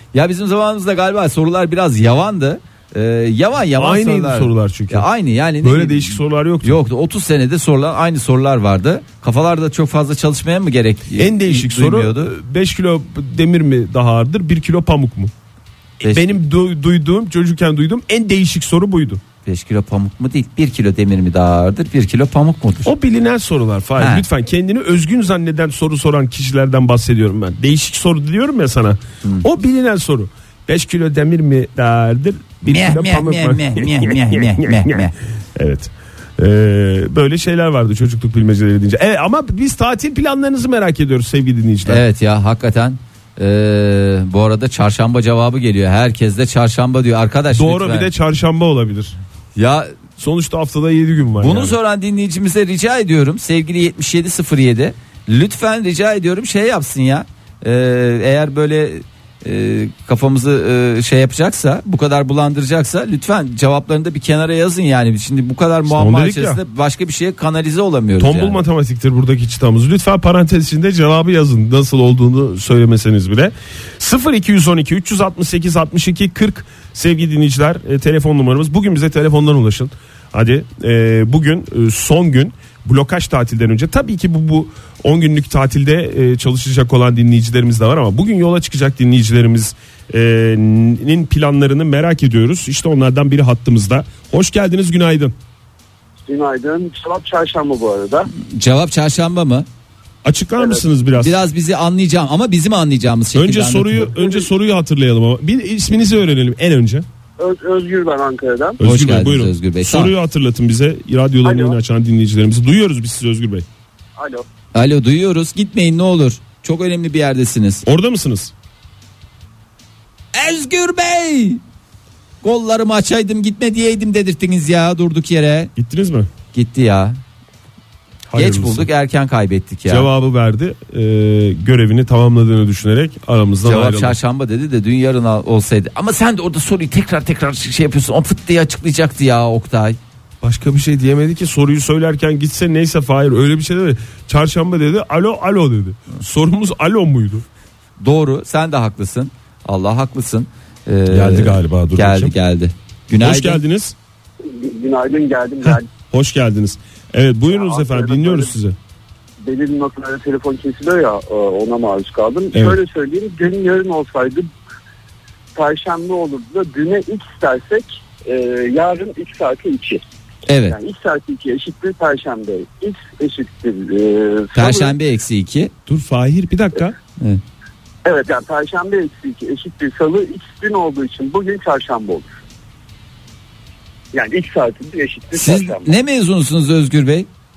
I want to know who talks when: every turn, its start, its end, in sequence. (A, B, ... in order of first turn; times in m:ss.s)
0:00.1-0:12.3 A
0:03.8-0:05.1 B
0:05.6-0:06.8 B
0:11.2-0:15.3 B
0:16.0-0:16.3 A
0:16.0-0:19.2 B
0:19.4-0:22.9 A
0:22.8-0:42.0 B
0:24.0-0:24.3 A
0:32.7-0:35.1 A
0:41.9-0:48.1 A
0:47.5-0:49.2 B
0:49.6-0:50.0 A
0:50.2-0:51.8 B
0:51.4-1:08.6 A
1:05.9-1:06.6 B
1:08.2-1:35.4 B
1:36.2-1:38.3 C
1:38.4-1:39.7 A
1:40.2-1:41.4 B
1:41.2-1:44.1 A
1:43.4-1:47.1 B
1:44.1-1:44.5 C
1:47.4-1:48.8 C
1:48.8-1:53.7 B
1:48.8-1:50.1 A
1:51.4-1:51.8 C
1:54.2-1:54.4 C
1:54.8-1:57.8 A
1:57.8-1:58.5 B
2:00.3-2:01.6 A
2:02.4-2:05.7 A
2:05.8-2:06.3 B
2:06.5-2:07.2 A
2:08.3-2:08.9 B
2:08.4-2:10.1 A
2:09.9-2:14.2 B
2:13.6-2:20.0 A
2:20.4-2:27.4 B
2:28.0-2:33.6 A
2:31.1-2:32.4 B
2:33.1-2:34.0 B
2:34.4-2:35.9 C
2:35.6-2:38.8 B
2:37.5-2:38.5 C
2:39.4-2:44.5 C
2:42.5-2:42.8 B
2:45.6-2:50.0 C
2:50.5-2:50.8 A
2:50.7-2:54.9 C
2:54.6-2:55.7 A
2:55.9-2:57.0 B
2:58.0-3:02.3 C
3:04.1-3:05.9 C
3:05.3-3:07.3 A